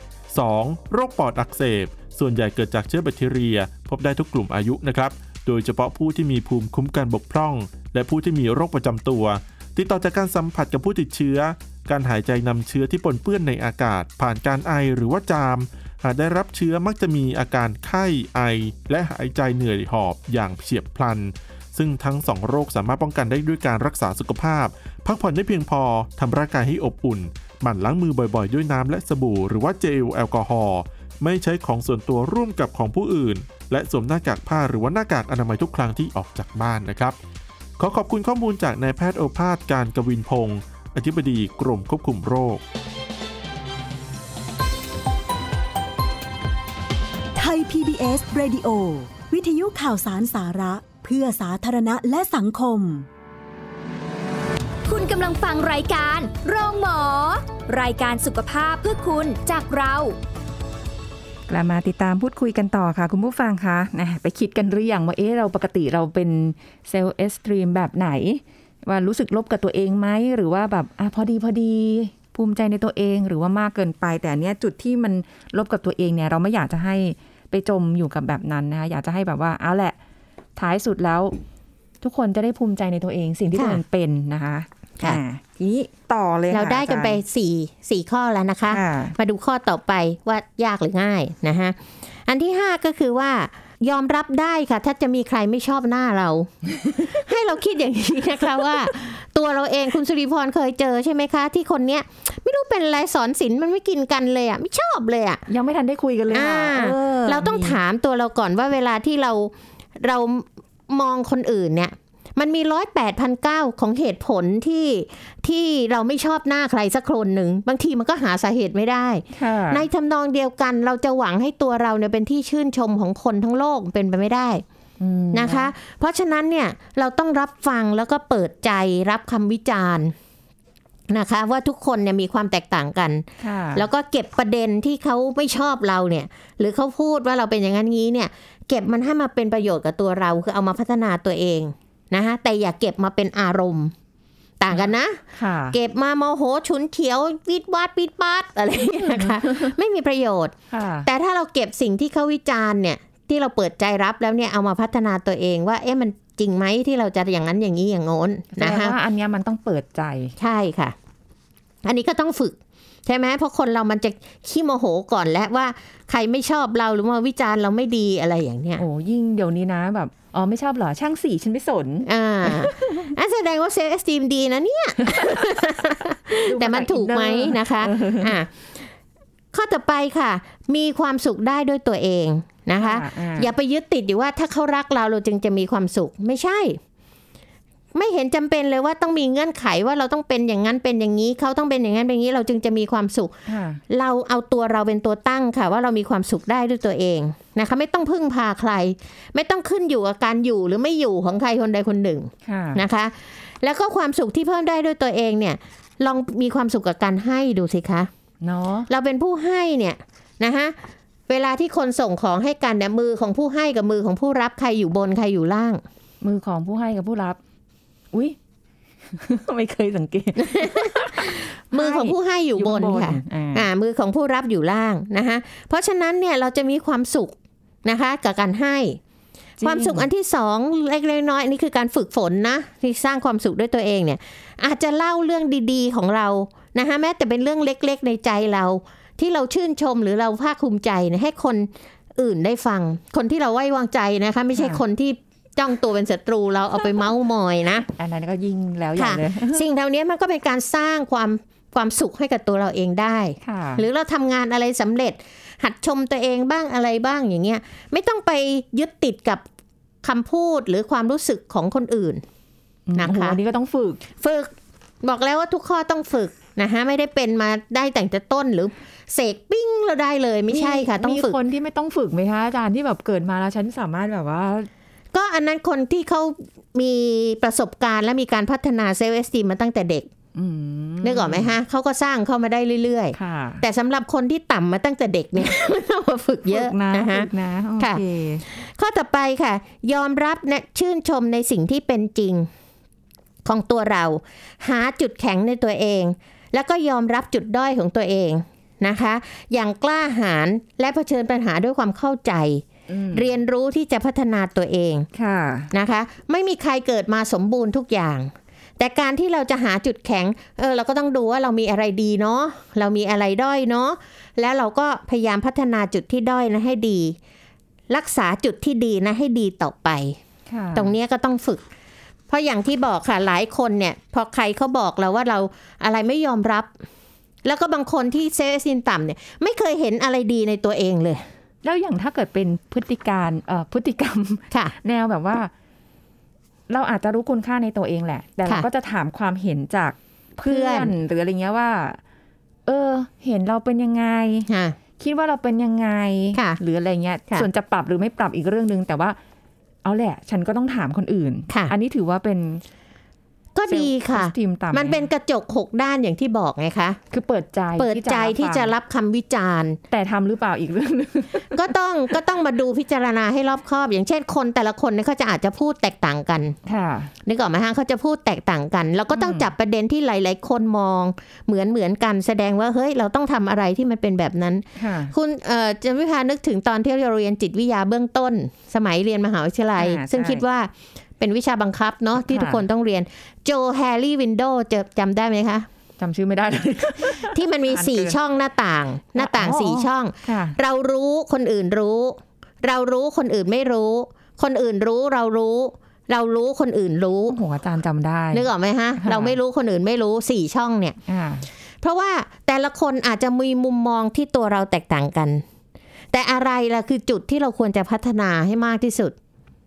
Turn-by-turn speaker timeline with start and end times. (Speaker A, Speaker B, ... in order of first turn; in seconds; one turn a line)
Speaker A: 0.3-37.1
Speaker A: 37.8-42.6
Speaker B: 47.4-53.1
Speaker C: 54.9-60.1
Speaker D: 61.5-80.0
Speaker D: 80.6-81.3
Speaker D: 82.0-87.2
Speaker E: 83.5-83.8
Speaker E: 86.5-105.4
Speaker D: 88.7-89.1
Speaker D: 96.8-97.1
Speaker D: 105.5-107.8
Speaker E: 106.3-124.6
Speaker D: 119.3-119.8
Speaker D: 125.0-125.7
Speaker E: 125.3-130.1
Speaker E: 131.1-143.9
Speaker D: 133.4-133.8
Speaker E: 144.6-158.9
Speaker D: 144.7-145.8
Speaker D: 149.2-149.7
Speaker D: 150.7-151.1
Speaker D: 158.5-160.3
Speaker E: 160.4-160.9
Speaker E: 161.8-168.8
Speaker D: 168.8-173.1
Speaker E: 172.0-178.9
Speaker D: 175.1-175.4
Speaker D: 176.4-178.3
Speaker E: 179.5-186.8
Speaker D: 182.8-183.5
Speaker E: 187.9-208.1
Speaker D: 193.5-193.8
Speaker D: 202.4-202.8
Speaker D: 208.4-208.9
Speaker E: 208.9-210.8
Speaker E: 211.3-215.8
Speaker D: 216.2-217.4
Speaker D: 219.1-223.7
Speaker E: 220.4-229.0
Speaker D: 229.6-230.1
Speaker E: 229.6-247.9
Speaker D: 244.5-244.8
Speaker D: 247.9-249.6
Speaker E: 248.9-259.4
Speaker D: 253.4-253.8
Speaker E: 260.0-262.2
Speaker D: 262.9-264.0
Speaker E: 262.9-263.4
Speaker E: 264.2-271.4
Speaker D: 270.5-274.7
Speaker E: 275.1-280.1
Speaker D: 280.3-281.6
Speaker E: 281.0-292.5
Speaker D: 283.1-283.6
Speaker D: 286.5-288.4
Speaker E: 293.4-305.1
Speaker D: 302.9-303.3
Speaker D: 305.1-305.7
Speaker E: 305.7-317.1
Speaker E: 317.9-320.2
Speaker D: 320.5-320.9
Speaker E: 320.7-321.6
Speaker E: 322.3-326.7
Speaker E: 327.4-331.2
Speaker D: 331.6-335.5
Speaker D: 336.7-342.0
Speaker E: 340.4-340.9
Speaker D: 342.6-349.2
Speaker E: 344.5-344.8
Speaker D: 349.8-352.6
Speaker E: 353.5-357.0
Speaker D: 353.7-355.1
Speaker D: 357.1-358.7
Speaker E: 357.8-359.8
Speaker D: 359.9-361.7
Speaker E: 361.5-366.6
Speaker D: 366.6-367.1
Speaker E: 367.2-385.7
Speaker D: 369.1-369.5
Speaker D: 374.8-375.1
Speaker D: 379.8-380.4
Speaker D: 382.2-382.6
Speaker D: 386.0-388.2
Speaker E: 387.2-397.4
Speaker D: 389.1-390.6
Speaker D: 397.3-398.5
Speaker E: 398.3-401.0
Speaker D: 399.0-399.4
Speaker D: 401.1-401.5
Speaker E: 401.8-405.4
Speaker E: 406.1-409.1